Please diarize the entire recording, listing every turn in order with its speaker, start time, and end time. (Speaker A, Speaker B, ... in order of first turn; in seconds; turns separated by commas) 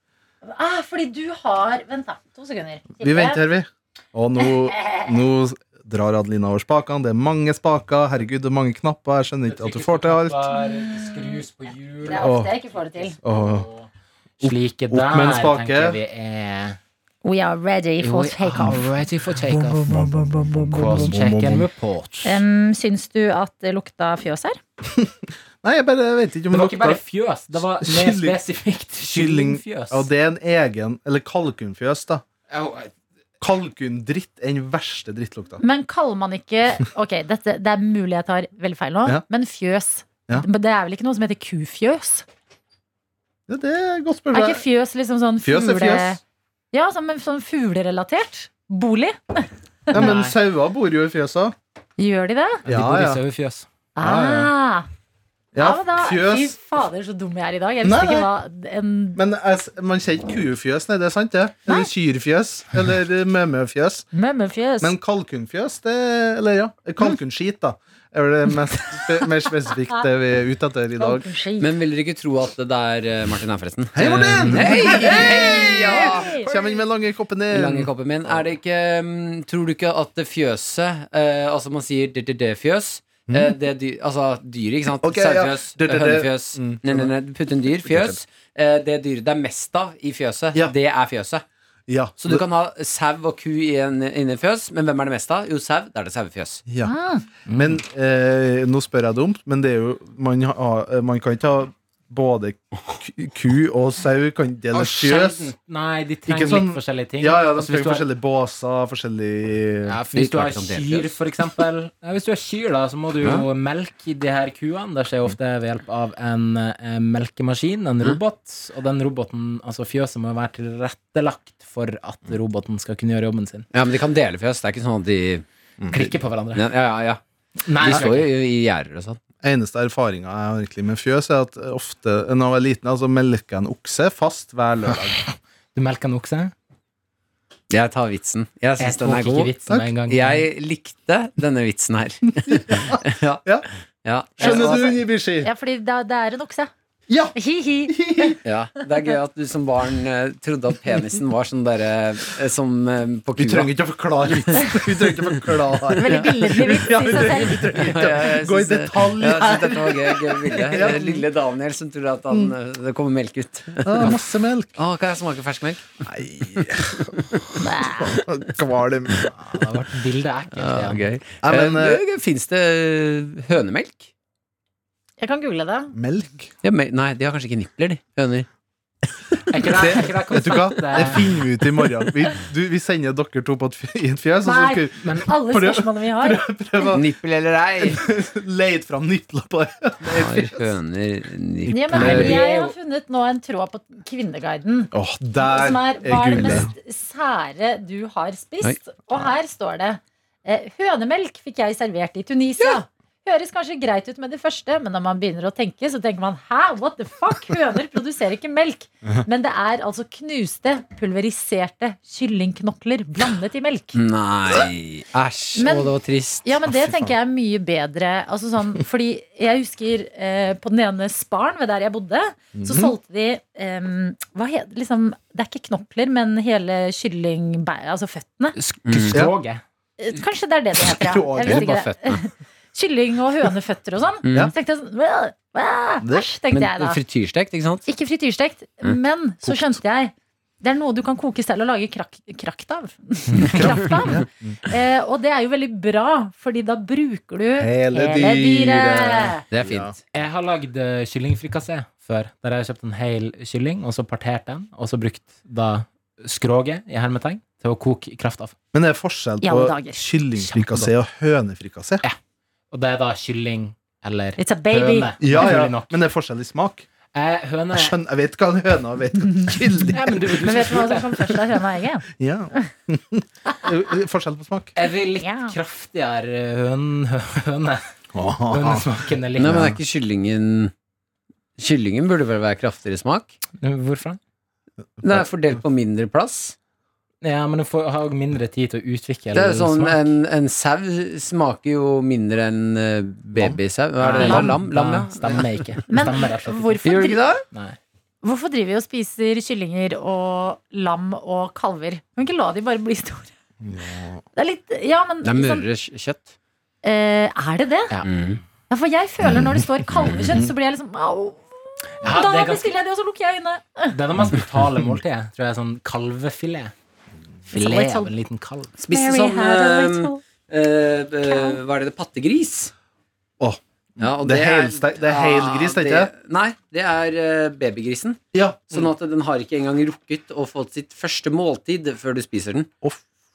Speaker A: 0.4-3.4, Speaker B: 3.0-10.5, Speaker A: 4.7-5.1, Speaker C: 9.5-13.9, Speaker A: 10.7-11.4, Speaker A: 12.1-13.2, Speaker B: 12.1-12.5, Speaker B: 13.2-13.7, Speaker B: 14.4-16.0, Speaker C: 14.4-16.8, Speaker A: 17.2-18.9, Speaker C: 18.0-20.0, Speaker B: 19.8-21.7, Speaker C: 20.6-22.4, Speaker A: 22.2-24.6, Speaker B: 24.9-28.4, Speaker C: 26.5-30.1, Speaker B: 29.1-32.2, Speaker C: 32.5-32.9, Speaker B: 33.4-35.6, Speaker A: 35.6-42.2, Speaker B: 43.5-44.6, Speaker A: 44.3-46.2, Speaker B: 45.4-46.2, Speaker A: 46.7-50.1, Speaker B: 49.9-51.5, Speaker C: 49.9-50.4, Speaker A: 52.0-52.7, Speaker B: 52.7-53.2, Speaker C: 52.7-53.7, Speaker A: 54.0-54.9, Speaker B: 54.0-54.5, Speaker B: 55.5-56.6, Speaker A: 55.6-59.2, Speaker B: 57.8-58.3, Speaker B: 59.2-64.1, Speaker A: 64.1-64.9, Speaker B: 64.8-71.2, Speaker A: 71.0-71.7, Speaker D: 71.6-76.3, Speaker B: 74.0-78.4, Speaker C: 74.4-74.8, Speaker A: 74.8-76.7, Speaker D: 77.5-91.5, Speaker B: 83.3-83.5, Speaker B: 85.0-87.1, Speaker B: 87.8-88.2, Speaker B: 91.9-92.4, Speaker D: 92.2-96.6, Speaker B: 96.7-96.9, Speaker A: 96.8-97.2, Speaker C: 97.5-97.8, Speaker B: 97.5-105.5, Speaker C: 104.7-108.0, Speaker B: 106.3-110.0, Speaker C: 109.9-123.7, Speaker D: 110.1-111.2, Speaker D: 123.7-125.5, Speaker B: 125.8-126.1, Speaker C: 125.9-126.6, Speaker D: 126.5-127.2, Speaker C: 127.7-128.3, Speaker D: 127.8-129.2, Speaker B: 129.4-135.2, Speaker C: 135.8-136.5, Speaker D: 137.7-139.5, Speaker C: 138.8-140.4, Speaker D: 140.1-143.4, Speaker B: 142.5-143.7, Speaker D: 144.0-144.9, Speaker B: 144.4-145.5, Speaker A: 144.4-146.7, Speaker B: 147.1-147.4, Speaker A: 147.3-148.4, Speaker B: 147.9-148.4, Speaker D: 148.4-153.7, Speaker B: 153.4-161.2, Speaker D: 154.3-154.8, Speaker A: 156.0-158.0, Speaker D: 157.8-164.2, Speaker B: 163.8-164.8, Speaker D: 164.8-166.0, Speaker B: 166.0-169.3, Speaker D: 166.5-167.4, Speaker A: 167.6-168.2, Speaker C: 169.3-171.0, Speaker D: 170.5-174.1, Speaker B: 171.4-172.0, Speaker A: 175.2-175.9, Speaker B: 175.9-176.5, Speaker D: 176.6-178.5, Speaker C: 179.5-181.2, Speaker B: 179.6-187.1, Speaker A: 184.4-186.5, Speaker D: 186.9-188.0, Speaker B: 187.8-190.7, Speaker D: 190.0-192.4, Speaker B: 191.7-192.4, Speaker A: 191.7-214.0, Speaker C: 192.0-192.7, Speaker B: 194.9-196.7, Speaker D: 213.9-216.5, Speaker A: 215.6-215.9, Speaker A: 216.4-228.6, Speaker B: 216.7-217.1, Speaker B: 222.6-222.9, Speaker C: 228.7-229.6, Speaker D: 228.8-229.2, Speaker A: 230.0-237.0, Speaker B: 231.0-231.7, Speaker D: 231.5-232.2, Speaker D: 234.2-234.5, Speaker B: 236.0-236.3, Speaker D: 236.5-237.9, Speaker A: 237.9-249.4, Speaker B: 239.4-239.8, Speaker B: 243.3-244.6, Speaker B: 247.6-249.9, Speaker D: 249.5-250.0, Speaker C: 250.1-258.5, Speaker B: 258.7-262.0, Speaker A: 259.4-260.0, Speaker C: 260.4-260.9, Speaker C: 262.7-266.0, Speaker A: 264.4-265.1, Speaker B: 265.2-266.9, Speaker C: 267.1-267.9, Speaker B: 267.7-270.7, Speaker C: 269.9-271.3, Speaker A: 270.4-272.7, Speaker B: 272.1-274.8, Speaker C: 274.8-277.8, Speaker A: 275.2-275.6, Speaker B: 278.1-279.8, Speaker C: 278.5-279.8, Speaker D: 279.4-280.7, Speaker D: 281.6-283.3, Speaker C: 283.6-284.2, Speaker D: 285.0-286.6, Speaker C: 287.2-290.0, Speaker D: 289.3-295.8, Speaker C: 294.0-296.8, Speaker A: 294.2-294.5, Speaker A: 295.9-297.2, Speaker D: 296.8-297.4, Speaker C: 297.5-297.8, Speaker A: 298.2-303.3, Speaker B: 303.6-304.2, Speaker A: 304.4-305.6, Speaker D: 305.2-306.3, Speaker A: 306.8-308.0, Speaker D: 308.0-308.4, Speaker A: 308.7-314.0, Speaker B: 309.2-310.5, Speaker C: 312.0-312.8, Speaker C: 313.9-316.7, Speaker A: 317.5-318.1, Speaker C: 317.5-318.7, Speaker D: 318.8-322.7, Speaker A: 318.9-320.2, Speaker A: 321.3-321.6, Speaker B: 323.4-326.1, Speaker D: 324.0-328.2, Speaker B: 328.3-328.9, Speaker D: 328.7-332.7